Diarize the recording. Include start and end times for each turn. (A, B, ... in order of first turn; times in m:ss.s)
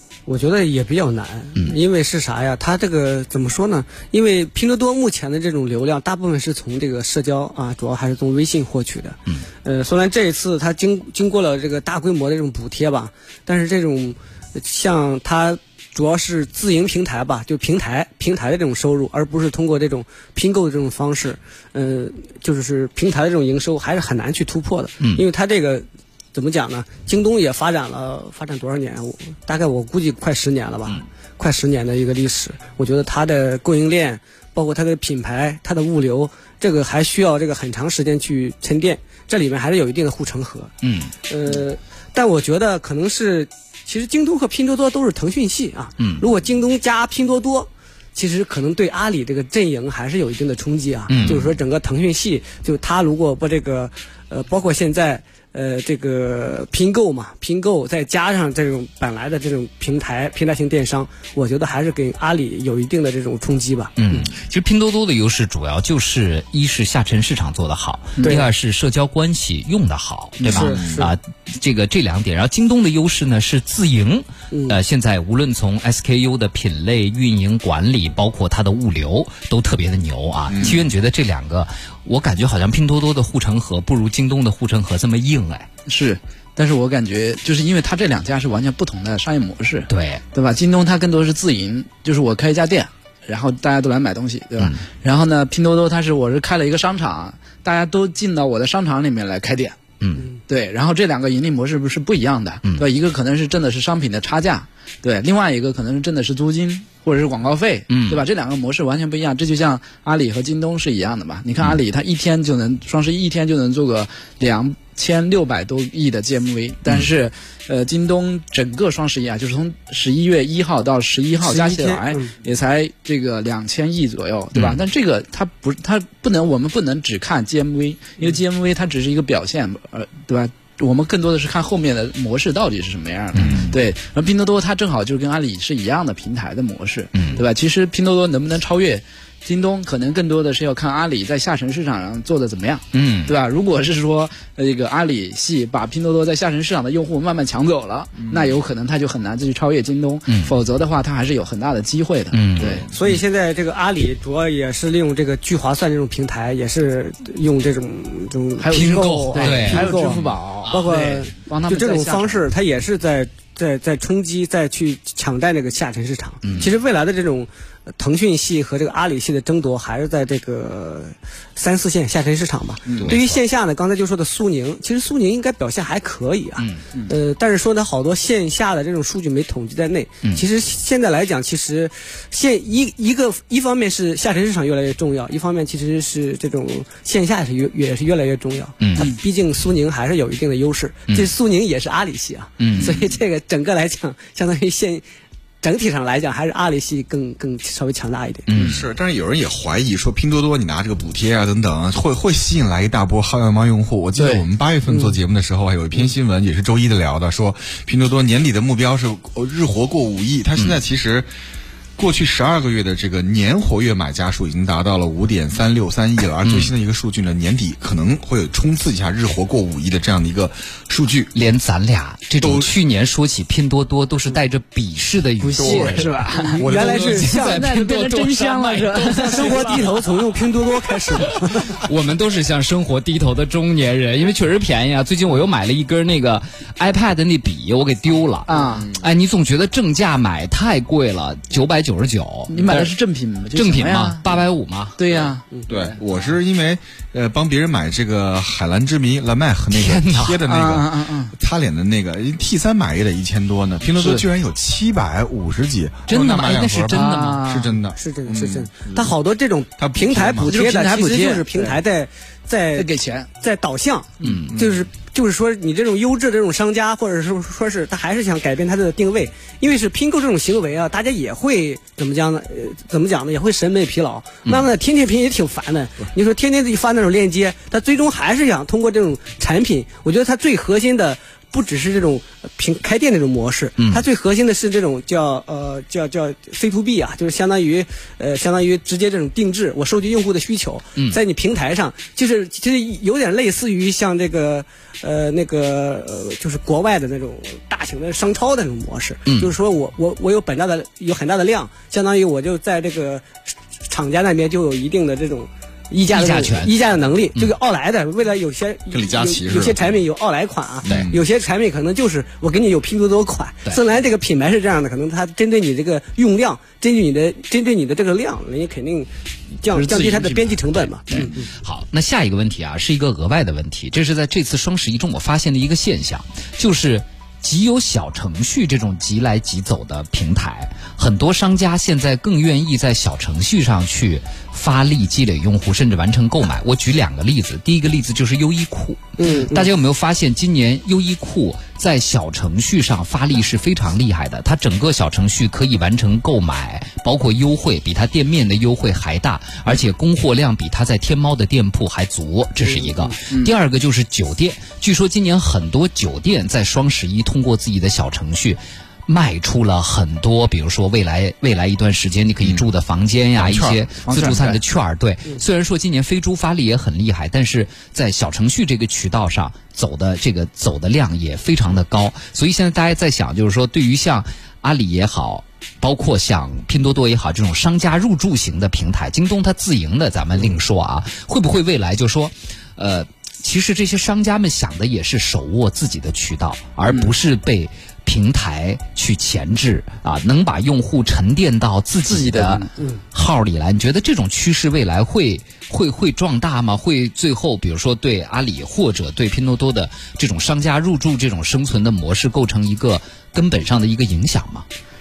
0:00.3-0:40.7 A
0:40.8-0:41.1 B
0:41.3-1:04.3 A
0:46.0-0:46.2 B
0:51.1-0:51.5 B
1:04.0-1:25.7 B
1:08.2-1:08.4 C
1:08.2-1:08.5 A
1:10.4-1:10.7 C
1:10.5-1:11.1 A
1:10.7-1:11.0 D
1:14.5-1:14.8 A
1:20.5-1:20.9 D
1:25.8-1:39.8 C
1:29.9-1:30.2 B
1:40.0-1:40.3 B
1:40.5-2:32.9 C
1:47.9-1:48.2 B
2:01.4-2:02.3 A
2:13.3-2:13.7 B
2:13.4-2:13.7 D
2:17.1-2:17.4 B
2:22.9-2:23.4 B
2:28.2-2:28.6 D
2:30.3-2:30.5 B
2:32.3-2:32.8 B
2:32.6-2:33.2 D
2:32.9-3:15.0 A
2:38.6-2:42.4 C
2:39.3-2:40.1 B
2:46.4-2:46.7 B
2:52.9-2:53.2 C
2:53.0-2:53.2 D
3:08.8-3:09.1 B
3:12.6-3:13.0 B
3:12.8-3:13.0 C
3:15.6-3:18.5 A
3:18.5-3:18.8 B
3:18.5-3:18.8 C
3:18.6-3:31.3 D
3:24.2-3:24.4 C
3:24.9-3:25.2 A
3:32.0-3:41.3 D
3:36.4-3:36.7 B
3:41.3-3:46.2 B
3:42.4-3:42.7 D
3:45.4-3:50.2 C
3:45.6-3:47.4 D
3:46.3-3:47.7 A
3:46.7-3:50.0 B
3:49.0-3:51.8 A
3:51.2-4:03.0 B
3:58.4-3:58.9 C
4:02.5-4:04.4 C
4:03.5-4:05.0 B
4:05.0-4:06.0 C
4:05.7-4:19.1 D
4:09.7-4:10.4 B
4:10.5-4:11.3 C
4:14.0-4:14.2 C
4:16.1-4:17.4 B
4:16.9-4:17.8 C
4:17.9-4:22.9 A
4:19.8-4:20.5 D
4:20.4-4:21.8 C
4:22.7-4:23.3 C
4:23.4-5:03.3 A
4:24.2-4:24.6 B
4:24.5-4:24.8 D
4:43.8-4:44.0 B
4:59.3-4:59.5 B
5:03.9-5:19.1 A
5:06.1-5:06.7 B
5:08.9-5:10.0 D
5:10.8-5:11.1 B
5:10.8-5:11.2 D
5:19.6-5:21.5 A
5:19.7-5:21.3 C
5:21.1-6:44.6 B
5:39.2-5:39.7 A
5:52.6-5:53.2 A
5:53.3-5:53.5 C
6:02.4-6:02.7 D
6:03.4-6:03.8 D
6:04.0-6:04.6 C
6:26.9-6:27.1 C
6:32.1-6:32.7 C